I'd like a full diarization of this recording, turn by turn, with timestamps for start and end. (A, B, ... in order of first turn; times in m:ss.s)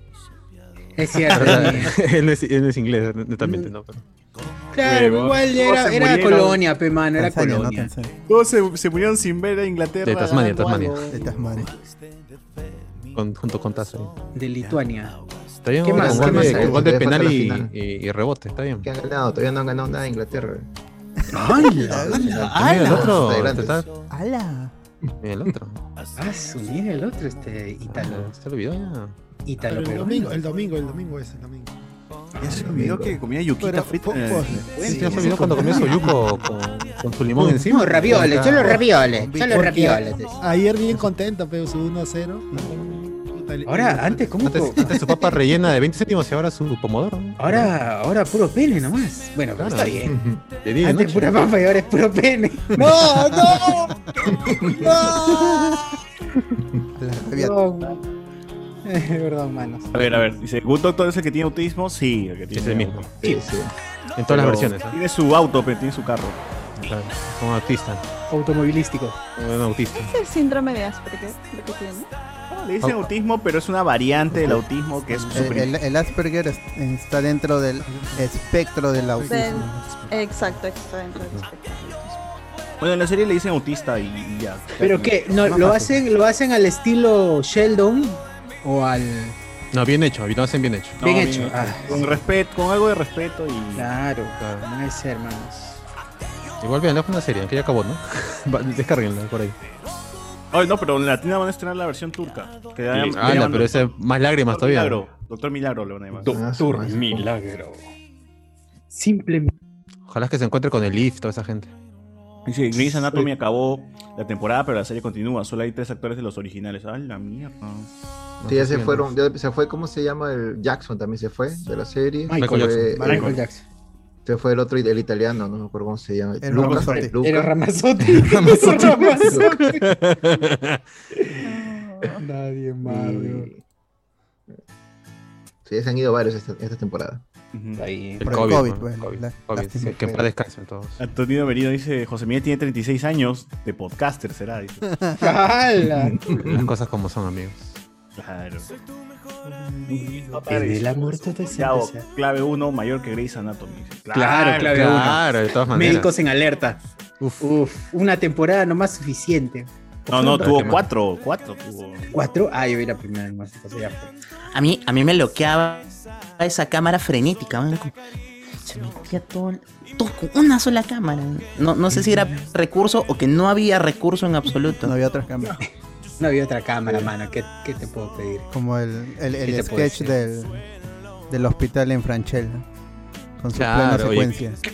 0:01.0-0:01.9 A
0:01.3-0:04.0 B
0:03.4-0:03.7 A
0:04.7-0:07.9 A
0:04.8-0:06.6 C
0:04.8-0:05.4 B
0:07.2-0:08.1 D
0:08.3-0:11.8 C
0:10.0-0:11.2 B
0:11.1-0:11.7 D
0:13.1-0:14.1 B
0:14.3-0:15.1 A
0:15.6-0:18.9 B
0:15.8-0:16.8 A
0:15.9-0:17.7 E
0:18.8-0:20.7 E
0:21.3-0:22.4 A
0:21.6-0:22.4 D
0:21.8-0:23.8 E
0:22.3-0:23.1 C
0:22.5-0:23.9 B
0:24.1-0:24.7 D
0:25.2-0:25.8 B
0:26.2-0:28.3 A
0:27.9-0:29.1 B
0:29.5-0:30.4 A
0:29.6-0:31.8 F
0:32.4-0:34.8 C
0:32.4-0:33.2 E
0:33.7-0:36.1 F
0:34.8-0:36.1 A
0:34.8-0:38.8 B
0:35.2-0:36.0 D
0:37.6-0:40.2 A
0:38.1-0:40.3 D
0:39.5-0:44.6 F
0:43.6-0:45.3 A
0:44.4-0:47.7 B
0:47.4-0:50.1 A
0:49.6-0:50.0 B
0:50.1-0:50.4 E
0:50.6-0:51.4 B
0:50.8-0:55.7 A
0:54.4-0:54.9 E
0:55.1-0:55.7 D
0:57.0-0:57.6 D
0:57.3-0:58.0 A
0:58.8-0:59.9 A
0:59.9-1:03.4 C
1:02.5-1:03.1 B
1:03.2-1:03.7 E
1:04.2-1:05.0 B
1:04.3-1:06.4 C
1:06.8-1:08.0 B
1:08.3-1:09.2 A
1:09.4-1:10.2 B
1:10.0-1:12.1 G
1:12.5-1:15.7 C
1:15.3-1:19.8 D
1:17.8-1:18.3 F
1:19.2-1:22.3 G
1:19.3-1:20.1 F
1:22.8-1:25.8 C
1:24.8-1:29.4 A
1:29.7-1:32.2 B
1:31.0-1:33.9 C
1:31.0-1:32.0 A
1:33.8-1:35.8 A
1:34.4-1:34.6 B
1:36.6-1:39.6 B
1:40.5-1:46.4 C
1:42.9-1:45.0 B
1:46.2-1:47.8 A
1:46.3-1:47.2 E
1:48.9-1:49.5 A
1:50.1-1:51.7 B
1:52.5-1:57.9 C
1:58.4-1:59.1 B
1:58.4-2:03.4 E
2:02.3-2:03.6 A
2:02.4-2:03.3 B
2:02.9-2:03.3 D
2:04.2-2:07.5 E
2:06.4-2:07.1 D
2:06.6-2:06.8 C
2:06.9-2:09.8 A
2:08.2-2:10.8 B
2:11.4-2:12.2 G
2:12.2-2:13.5 A
2:12.8-2:13.6 E
2:15.6-2:17.2 E
2:17.5-2:17.8 C
2:17.8-2:18.3 A
2:18.2-2:21.0 B
2:18.2-2:19.9 D
2:19.8-2:20.3 E
2:21.0-2:24.9 C
2:25.0-2:25.2 D
2:25.2-2:26.3 A
2:26.0-2:26.7 E
2:26.4-2:27.8 B
2:28.1-2:28.7 C
2:29.9-2:35.1 C
2:30.2-2:32.0 A
2:34.1-2:36.8 A
2:34.7-2:36.1 B
2:37.4-2:40.8 A
2:40.1-2:42.1 C
2:40.4-2:40.9 B
2:42.1-2:44.1 A
2:44.5-2:48.0 H
2:48.6-2:54.9 H
2:54.7-2:55.6 D
2:56.2-2:58.5 A
2:58.5-3:00.6 D
2:59.4-3:00.1 A
3:01.3-3:02.6 D
3:03.4-3:04.6 D
3:03.5-3:04.4 B